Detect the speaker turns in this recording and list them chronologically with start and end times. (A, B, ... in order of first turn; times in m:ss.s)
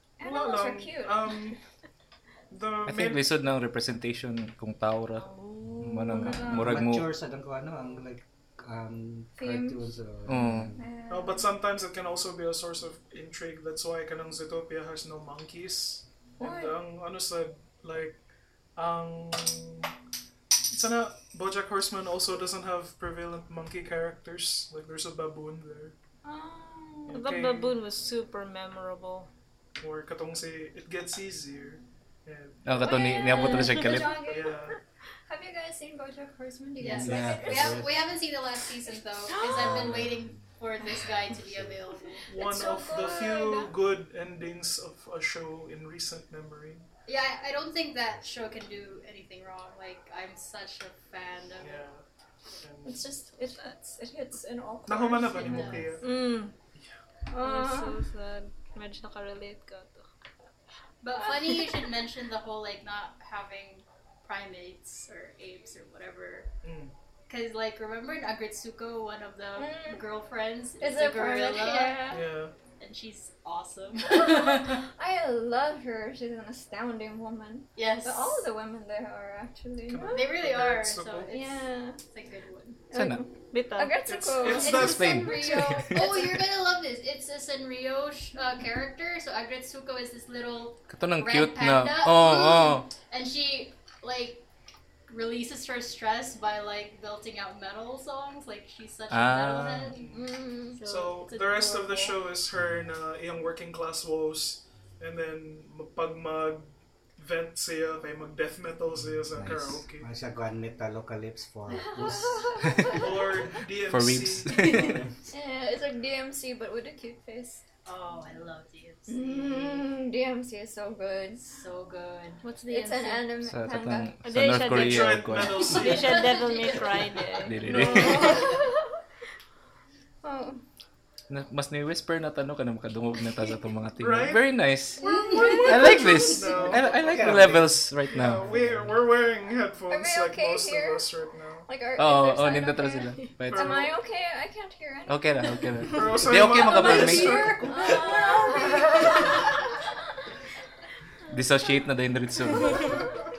0:00.2-0:01.4 A
0:00.2-0:01.6 B
0:02.5-0:03.3 B
0:02.8-0:05.3 C
0:05.2-0:06.4 D
0:05.8-0:07.1 C
0:05.8-0:10.8 E
0:06.1-0:06.7 A
0:07.6-0:08.0 B
0:09.4-0:09.9 A
0:10.3-0:10.7 C
0:10.8-0:11.5 A
0:11.1-0:18.2 B
0:16.4-0:16.8 A
0:18.8-0:19.9 B
0:20.7-0:25.9 B
0:26.2-0:27.2 A
0:27.1-0:27.8 B
0:27.1-0:29.3 D
0:29.8-0:32.7 B
0:32.6-0:34.3 C
0:32.8-0:34.8 A
0:34.2-0:34.8 B
0:35.3-0:37.8 A
0:36.8-0:38.1 E
0:36.8-0:42.3 F
0:39.2-0:40.0 A
0:39.5-0:40.4 E
0:41.3-0:41.8 E
0:42.3-0:46.9 B
0:42.4-0:43.7 A
0:47.1-0:51.8 F
0:51.6-0:52.0 B
0:52.6-0:53.1 B
0:52.8-0:55.9 A
0:54.9-0:56.1 B
0:55.4-0:55.9 F
0:55.5-0:55.9 E
0:56.0-0:56.5 D
0:57.3-0:58.0 A
0:57.4-1:00.1 D
1:01.0-1:06.5 F
1:06.6-1:06.9 B
1:07.3-1:12.1 F
1:09.6-1:10.0 A
1:10.8-1:12.3 A
1:12.0-1:12.5 B
1:12.7-1:14.8 F
1:14.1-1:20.3 A
1:17.8-1:18.5 F
1:19.9-1:21.3 B
1:20.0-1:22.8 F
1:21.3-1:22.0 A
1:22.9-1:26.3 A
1:22.9-1:23.2 C
1:23.5-1:24.0 D
1:24.0-1:25.6 B
1:24.5-1:26.3 C
1:25.9-1:34.4 F
1:30.9-1:32.9 C
1:35.1-1:40.0 F
1:39.1-1:39.9 C
1:39.9-1:40.3 B
1:40.1-1:40.8 A
1:40.8-1:42.3 F
1:40.8-1:50.0 B
1:42.6-1:42.9 E
1:49.3-1:52.6 E
1:51.7-1:53.3 A
1:52.8-1:54.9 B
1:53.9-1:55.0 C
1:54.7-1:55.1 E
1:55.3-1:57.6 A
1:57.8-1:59.9 F
1:59.1-2:01.6 A
2:01.6-2:02.4 F
2:02.4-2:03.3 D
2:02.7-2:04.1 A
2:03.5-2:05.8 C
2:04.2-2:08.5 D
2:04.6-2:06.3 B
2:05.9-2:07.2 F
2:07.4-2:08.5 C
2:07.6-2:08.9 A
2:10.2-2:10.6 A
2:11.3-2:15.0 C
2:14.0-2:21.7 B
2:15.0-2:15.8 A
2:15.0-2:16.6 F
2:15.6-2:18.4 C
2:16.7-2:19.0 E
2:19.9-2:21.0 A
2:21.6-2:25.5 A
2:22.0-2:23.8 C
2:23.4-2:23.9 B
2:25.1-2:27.7 C
2:25.8-2:28.6 B
2:26.6-2:29.0 F
2:27.5-2:29.3 A
2:28.6-2:29.2 D
2:31.3-2:33.0 C